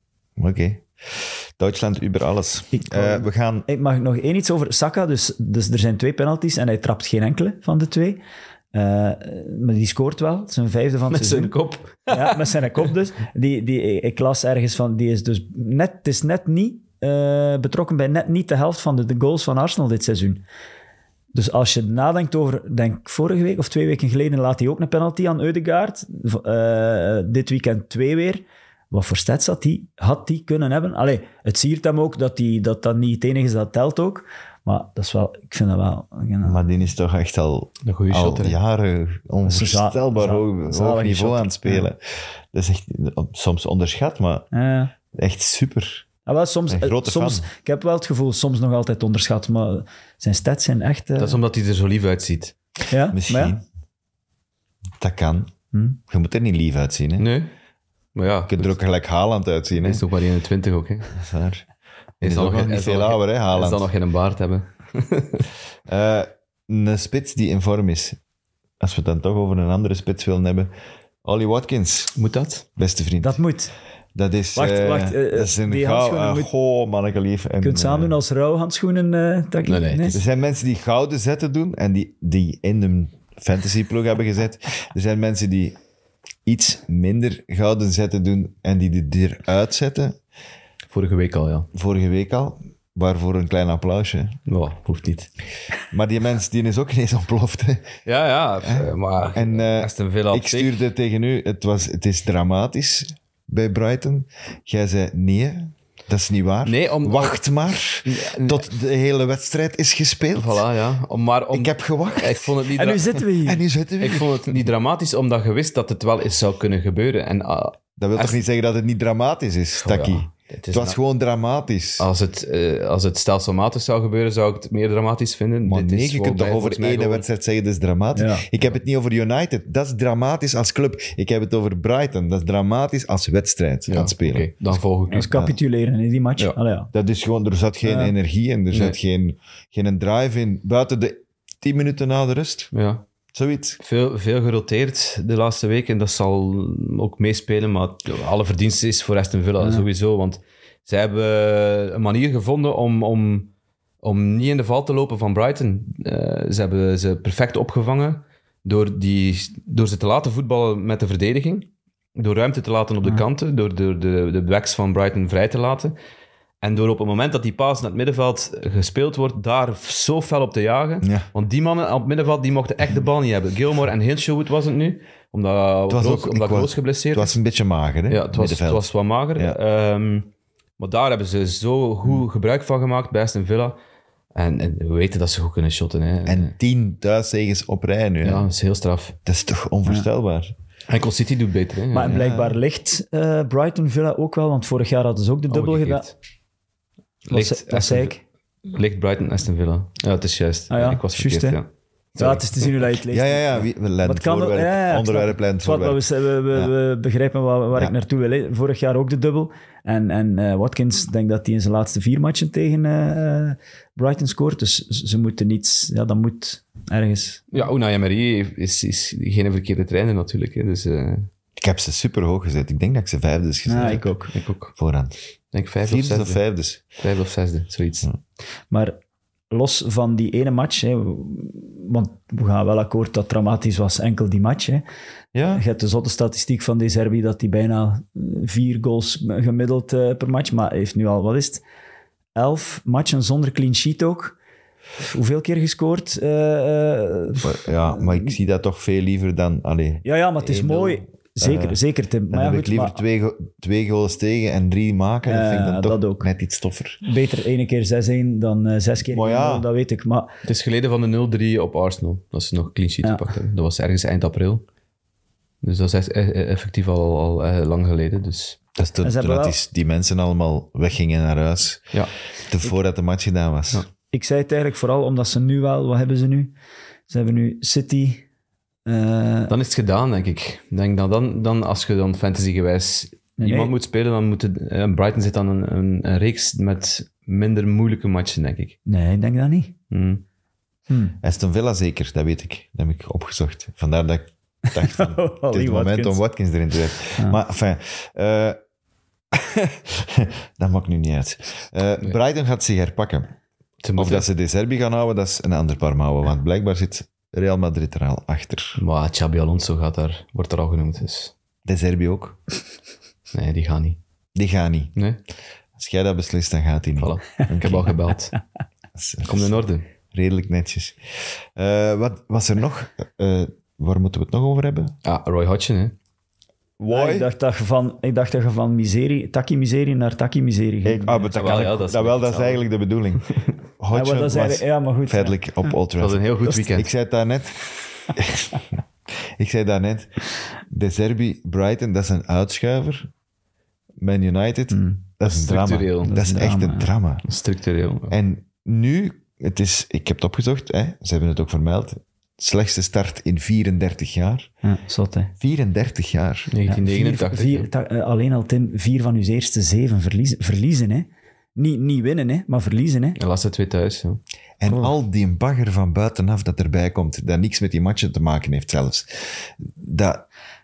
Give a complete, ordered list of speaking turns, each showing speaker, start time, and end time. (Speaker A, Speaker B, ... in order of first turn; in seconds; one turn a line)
Speaker A: 0.4-3.7
Speaker B: 2.7-8.2
Speaker B: 8.7-11.6
Speaker C: 11.1-12.5
Speaker B: 12.1-20.4
Speaker B: 21.3-36.6
Speaker A: 36.4-42.0
Speaker C: 37.8-38.5
Speaker B: 39.4-41.9
Speaker A: 42.5-44.5
Speaker B: 44.5-44.9
Speaker A: 45.1-46.1
Speaker B: 46.2-51.4
Speaker A: 46.7-47.5
Speaker C: 51.2-52.5
Speaker B: 52.9-53.5
Speaker A: 53.1-53.6
Speaker A: 55.0-55.5
Speaker B: 55.7-56.0
Speaker A: 56.0-57.3
Speaker C: 57.2-57.5
Speaker C: 58.1-58.8
Speaker A: 58.5-60.0
Speaker C: 59.7-61.1
Speaker A: 61.1-61.6
Speaker A: 62.2-63.9
Speaker C: 62.2-65.5
Speaker A: 65.9-68.2
Speaker A: 68.8-70.7
Speaker A: 71.2-72.1
Speaker C: 72.2-72.6
Speaker A: 72.8-73.4
Speaker B: 73.2-73.7
Speaker A: 74.1-78.1
Speaker B: 74.5-76.5
Speaker B: 77.6-80.2
Speaker C: 79.6-80.2
Speaker A: 80.1-85.8
Speaker A: 86.5-90.2
Speaker C: 90.9-91.7
Speaker A: 91.7-94.3
Speaker C: 94.5-95.3
Speaker A: 95.9-97.9
Speaker C: 98.0-100.8
Speaker A: 98.6-110.6
Speaker C: 106.7-107.4
Speaker C: 108.0-108.6
Speaker C: 110.3-113.2
Speaker A: 111.5-112.6
Speaker B: 112.8-113.6
Speaker A: 113.4-114.5
Speaker C: 114.0-118.4
Speaker A: 118.0-122.0
Speaker C: 119.8-121.0
Speaker C: 122.0-127.2
Speaker A: 125.6-134.5
Speaker B: 128.1-128.4
Speaker C: 133.9-135.3
Speaker B: 135.1-136.9
Speaker A: 136.9-142.7
Speaker B: 137.8-138.1
Speaker C: 138.7-139.0
Speaker C: 142.7-143.0
Speaker A: 143.3-143.8
Speaker C: 143.8-153.5
Speaker B: 149.6-149.8
Speaker C: 154.0-165.9
Speaker C: 166.6-177.3
Speaker A: 171.0-171.3
Speaker A: 175.9-179.6
Speaker C: 178.1-183.8
Speaker C: 184.3-186.5
Speaker A: 186.3-188.5
Speaker C: 188.2-189.2
Speaker A: 189.2-190.5
Speaker C: 190.9-192.2
Speaker B: 191.9-196.1
Speaker A: 192.1-192.6
Speaker C: 195.5-196.1
Speaker B: 197.3-198.2
Speaker C: 197.3-202.4
Speaker B: 200.7-201.6
Speaker B: 202.2-217.5
Speaker A: 203.1-206.7
Speaker C: 217.5-221.3
Speaker A: 221.6-224.1
Speaker B: 223.7-224.3
Speaker C: 223.8-224.7
Speaker A: 224.8-225.2
Speaker C: 225.5-226.4
Speaker A: 225.8-226.8
Speaker C: 227.0-228.1
Speaker B: 228.7-228.9
Speaker B: 229.5-234.8
Speaker A: 235.3-235.6
Speaker B: 235.5-241.6
Speaker B: 242.3-244.3
Speaker B: 245.0-248.3
Speaker A: 247.4-251.8
Speaker B: 250.0-253.0
Speaker A: 252.3-257.0
Speaker B: 255.2-256.3
Speaker B: 257.0-260.3
Speaker A: 259.1-259.6
Speaker C: 260.4-264.6
Speaker C: 265.6-268.6
Speaker A: 268.8-271.9
Speaker B: 269.0-269.6
Speaker A: 272.5-273.8
Speaker B: 274.1-276.5
Speaker B: 277.1-278.2
Speaker B: 278.9-279.5
Speaker C: 279.5-288.8
Speaker B: 283.4-283.7
Speaker B: 288.9-289.7
Speaker C: 289.9-290.2
Speaker B: 290.9-291.1
Speaker A: 291.2-298.6
Speaker B: 294.8-296.2
Speaker A: 299.3-303.3
Speaker C: 303.8-304.2
Speaker A: 303.9-308.8
Speaker C: 308.8-311.3
Speaker A: 311.6-312.4
Speaker C: 313.3-314.0
Speaker A: 314.4-314.9
Speaker A: 315.8-317.9
Speaker C: 317.0-318.3
Speaker A: 318.9-319.6
Speaker C: 319.2-319.8
Speaker A: 320.1-321.0
Speaker A: 321.6-324.9
Speaker C: 325.0-325.9
Speaker A: 326.8-327.3
Speaker B: 326.9-331.3
Speaker A: 330.8-338.6
Speaker C: 331.3-332.6
Speaker B: 333.9-335.4
Speaker C: 336.0-336.9
Speaker A: 339.4-340.1
Speaker A: 340.7-343.1
Speaker A: 344.0-347.2
Speaker B: 344.7-345.0
Speaker C: 345.2-346.1
Speaker B: 346.0-346.9
Speaker C: 347.2-348.1
Speaker A: 348.1-354.5
Speaker B: 354.6-355.3
Speaker A: 355.4-356.5
Speaker C: 356.5-357.7
Speaker B: 356.7-363.2
Speaker C: 363.2-364.2
Speaker A: 364.6-370.2